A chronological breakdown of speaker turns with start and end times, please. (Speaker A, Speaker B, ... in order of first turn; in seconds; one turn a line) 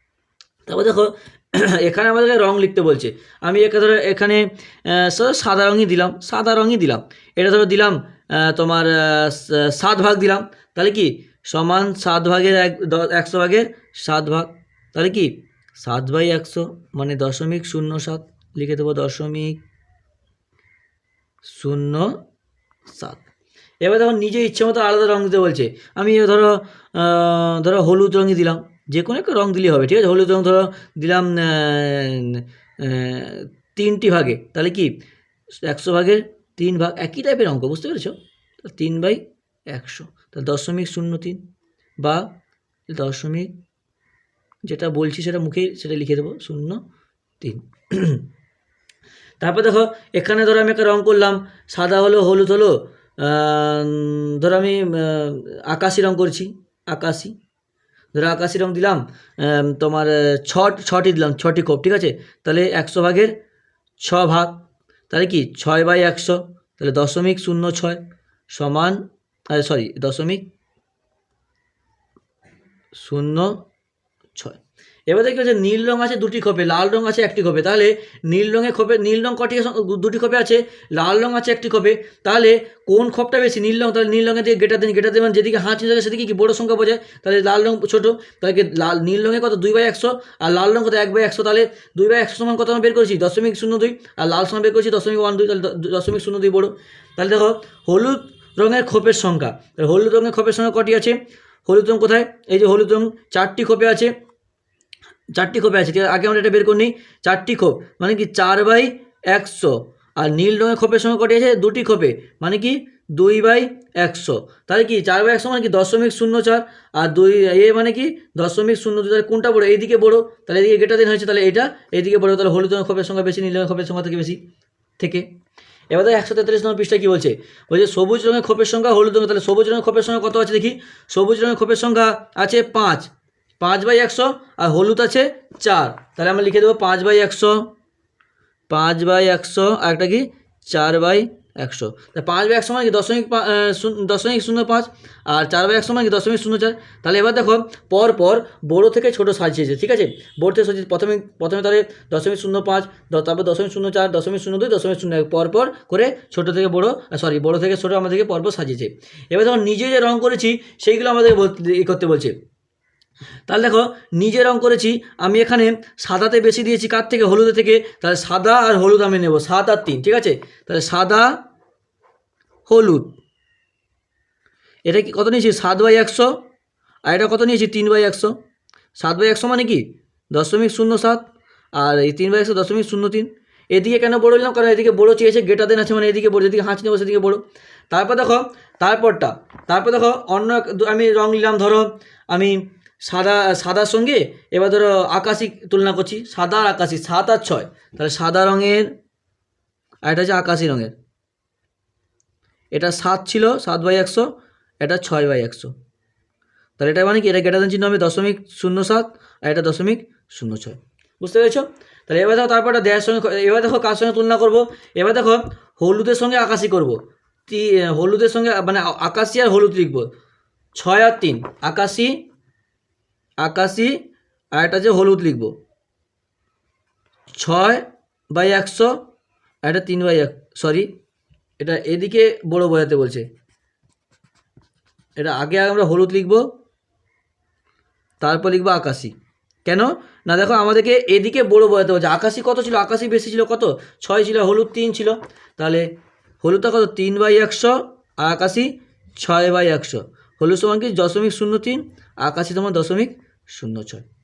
Speaker A: 0.7-19.6
Speaker A: 21.4-22.1
Speaker A: 22.9-23.2
Speaker A: 23.8-35.0
Speaker A: 35.6-41.4
Speaker A: 42.9-43.5
Speaker A: 44.7-46.8
Speaker A: 47.4-48.2
Speaker A: 49.4-57.3
Speaker A: 58.1-63.3
Speaker A: 64.0-64.6
Speaker A: 65.1-69.0
Speaker A: 69.5-70.4
Speaker A: 73.0-73.6
Speaker A: 74.3-104.1
Speaker A: 105.3-124.4
Speaker A: 125.0-125.2
Speaker A: 125.9-137.7
Speaker A: 138.7-162.3
Speaker A: 163.5-171.3
Speaker A: 172.7-173.1
Speaker A: 174.8-176.3
Speaker A: 177.1-178.3
Speaker A: 179.0-181.2
Speaker A: 181.8-198.9
Speaker A: 200.0-200.9
Speaker A: 202.7-204.3
Speaker A: 204.8-205.7
Speaker A: 206.8-216.9
Speaker A: 217.5-220.1
Speaker A: 220.7-222.2
Speaker A: 223.4-223.9
Speaker A: 224.5-225.5
Speaker A: 227.4-228.9
Speaker A: 229.6-230.9
Speaker A: 231.6-233.2
Speaker A: 235.2-236.4
Speaker A: 238.2-239.1
Speaker A: 239.6-245.8
Speaker A: 246.4-254.0